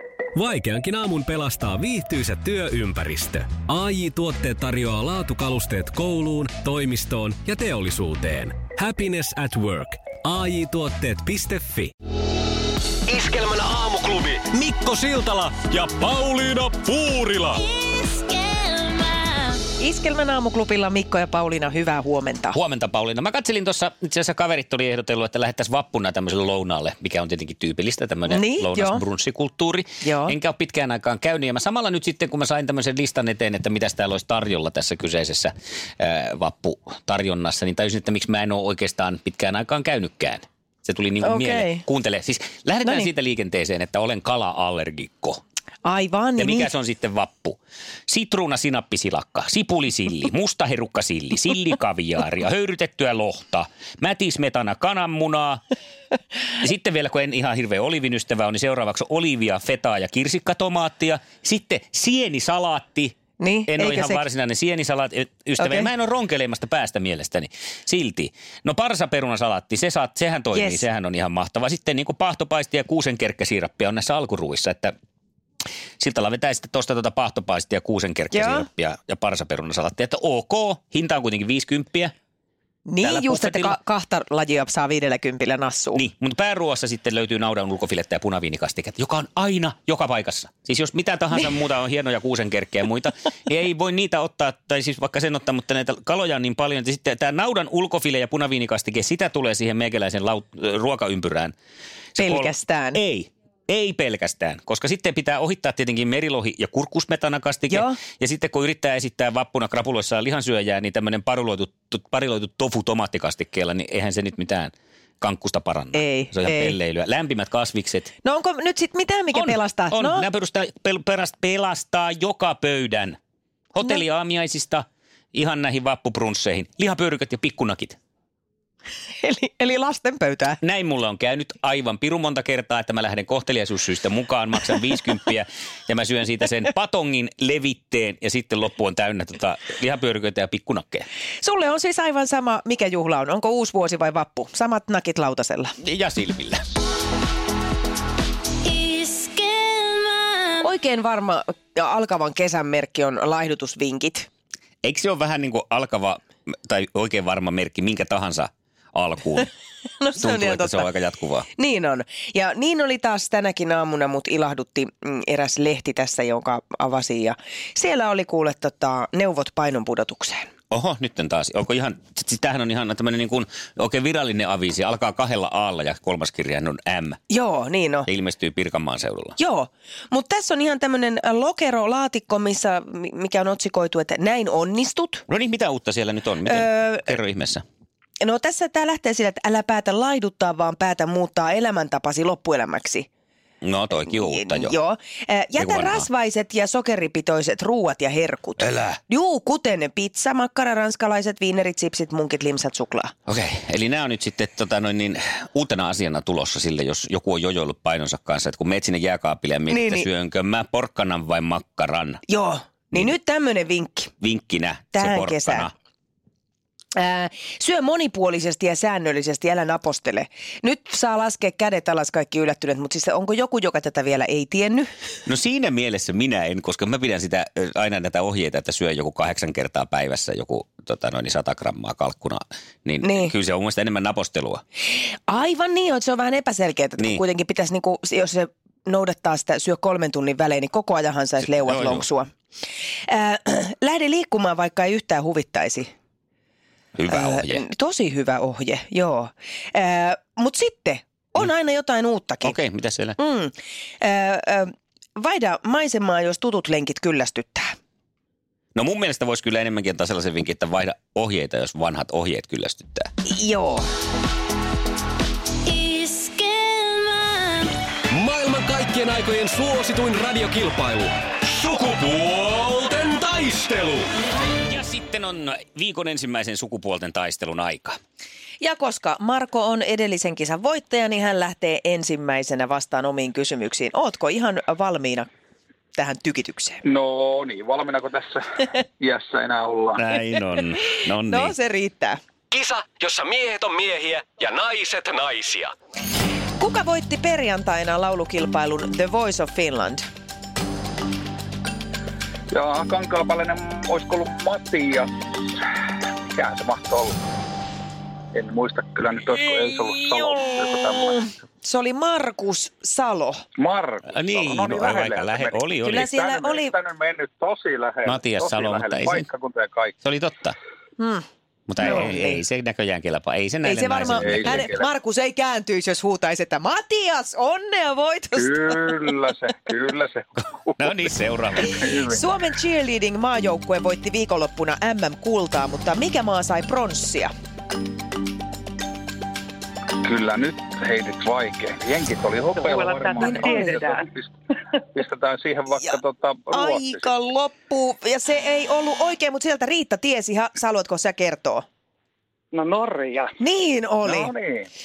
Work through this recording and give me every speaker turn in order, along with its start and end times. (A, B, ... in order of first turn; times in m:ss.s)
0:00.3-0:11.9 A
0:13.1-0:14.4 B
0:14.5-0:17.6 A
0:17.6-0:19.6 C
0:19.8-0:22.6 D
0:22.5-0:45.4 E
0:28.3-0:29.0 D
0:30.0-0:30.4 D
0:41.2-0:41.8 D
0:45.8-0:46.7 D
0:46.4-0:55.6 E
0:56.6-1:03.2 E
1:03.4-1:04.2 D
1:03.7-1:14.9 E
1:05.6-1:05.9 D
1:10.5-1:10.8 D
1:16.0-1:22.1 E
1:18.3-1:18.7 D
1:22.9-1:26.0 D
1:23.0-1:23.8 E
1:26.0-1:41.5 E
1:42.2-1:58.1 E
1:42.2-1:43.0 D
1:47.7-1:48.0 D
1:55.9-1:56.8 D
1:58.2-2:00.3 D
1:59.3-2:03.2 E
2:03.7-2:08.0 E
2:09.2-2:10.6 D
2:10.6-2:21.1 E
2:21.4-2:25.7 D
2:25.8-2:26.6 E
2:28.6-2:30.5 C
2:30.5-2:34.3 D
2:34.8-2:39.5 E
2:40.0-2:40.9 D
2:40.2-2:41.5 E
2:41.6-2:50.5 D
2:50.7-2:57.2 E
2:57.3-2:58.1 D
2:58.1-2:59.3 E
2:59.4-3:05.2 D
3:05.3-3:07.6 E
3:06.5-3:07.1 D
3:08.2-3:13.1 D
3:13.6-3:14.8 E
3:14.0-3:23.1 D
3:15.6-3:16.1 E
3:18.6-3:19.0 E
3:23.3-3:32.2 E
3:29.7-3:30.1 D
3:32.3-3:34.1 D
3:34.2-3:35.7 E
3:34.9-3:35.7 D
3:37.0-3:44.9 D
3:45.3-3:54.6 E
3:53.0-3:53.3 D
3:55.3-4:02.3 D
4:01.6-4:02.1 E
4:03.1-4:05.9 D
4:07.0-4:07.6 E
4:07.1-4:12.6 D
4:12.4-4:13.2 E
4:13.2-4:17.7 D
4:18.8-4:23.1 E
4:23.2-4:23.9 D
4:25.7-4:27.7 C
4:28.1-4:34.1 A
4:34.6-4:38.0 E
4:38.6-4:45.3 D
4:45.9-4:46.8 D
4:46.8-4:48.4 F
4:49.0-4:50.0 F
4:50.0-4:51.5 E
4:51.2-4:52.2 D
4:52.6-4:55.7 B
4:53.6-4:54.0 C
4:56.6-5:00.0 D
5:02.5-5:05.6 F
5:06.3-5:07.2 F
5:08.3-5:11.3 F
5:10.1-5:10.5 D
5:11.0-5:13.4 D
5:13.6-5:19.9 F
5:14.1-5:16.1 E
5:15.8-5:16.7 D
5:18.1-5:19.3 E
5:20.0-5:20.6 E
5:21.0-5:21.2 D
5:21.7-5:24.7 E
5:21.8-5:22.4 D
5:23.6-5:29.0 D
5:24.1-5:24.9 F
5:28.3-5:31.0 F
5:30.8-5:31.8 E
5:31.6-5:32.2 F
5:32.1-5:37.3 D
5:40.0-5:44.3 F
5:42.6-5:44.0 G
5:43.2-5:43.9 D
5:44.9-5:47.0 F
5:46.5-5:51.7 D
5:52.5-5:53.4 G
5:53.4-5:54.3 D
5:54.0-5:54.7 F